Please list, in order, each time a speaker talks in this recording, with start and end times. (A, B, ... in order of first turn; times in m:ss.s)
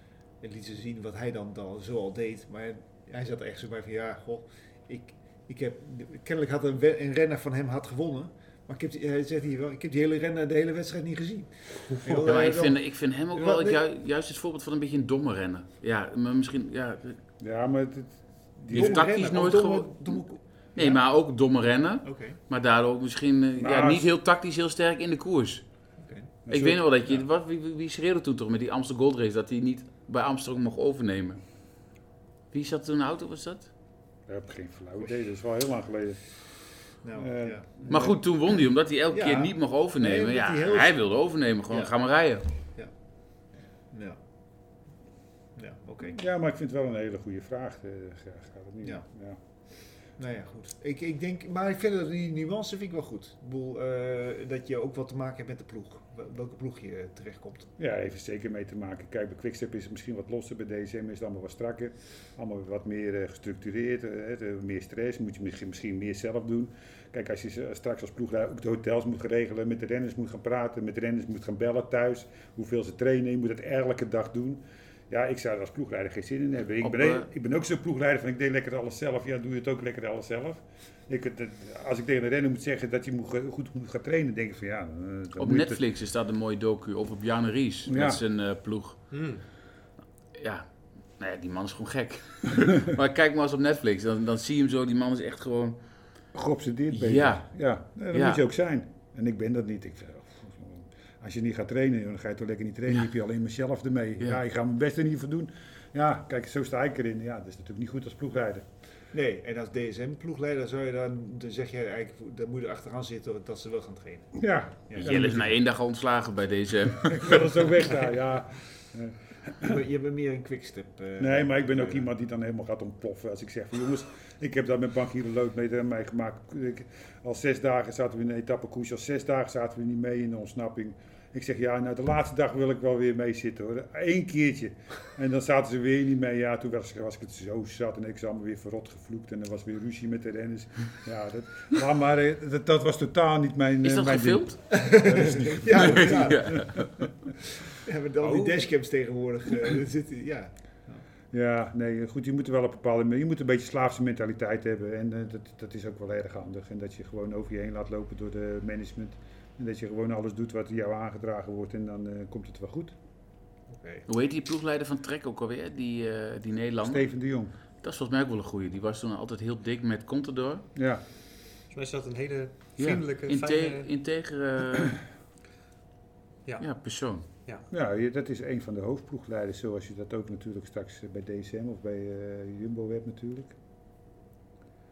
0:00.4-0:13.8 A
0:12.2-0:17.2 B
0:17.4-0:19.1 C
0:18.7-0:20.2 B
0:18.7-0:21.0 A
0:20.7-0:25.6 B
0:22.0-0:22.4 A
0:23.6-0:24.1 C
0:26.0-0:26.3 A
0:26.5-0:26.8 C
0:26.5-0:31.4 B
0:32.5-0:33.7 B
0:34.3-0:36.2 C
0:37.0-0:38.0 A
0:37.2-0:38.2 C
0:37.9-0:42.4 B
0:39.1-0:41.0 A
0:43.9-0:44.2 A
0:45.5-0:46.2 A
0:46.1-0:49.4 C
0:50.2-0:57.7 A
0:57.8-1:25.8 C
1:16.8-1:17.2 B
1:25.4-1:29.1 B
1:27.9-1:28.2 C
1:29.1-1:29.4 D
1:30.4-1:35.8 B
1:36.3-1:48.6 C
1:36.9-1:37.4 B
1:38.1-1:38.4 B
1:49.1-1:55.2 A
1:54.3-1:55.5 C
1:55.0-1:57.7 B
1:57.0-1:59.8 C
1:59.6-2:02.1 A
2:01.2-2:27.0 C
2:23.8-2:24.6 B
2:24.7-2:26.7 A
2:25.7-2:26.9 B
2:27.7-2:31.0 A
2:28.2-2:28.6 D
2:31.3-2:42.9 C
2:43.7-2:44.0 A
2:44.1-2:47.1 B
2:46.8-2:47.5 C
2:47.8-2:50.6 B
2:50.7-2:51.0 C
2:51.7-2:53.9 D
2:52.8-2:55.0 B
2:56.6-2:57.2 B
2:57.7-3:03.5 C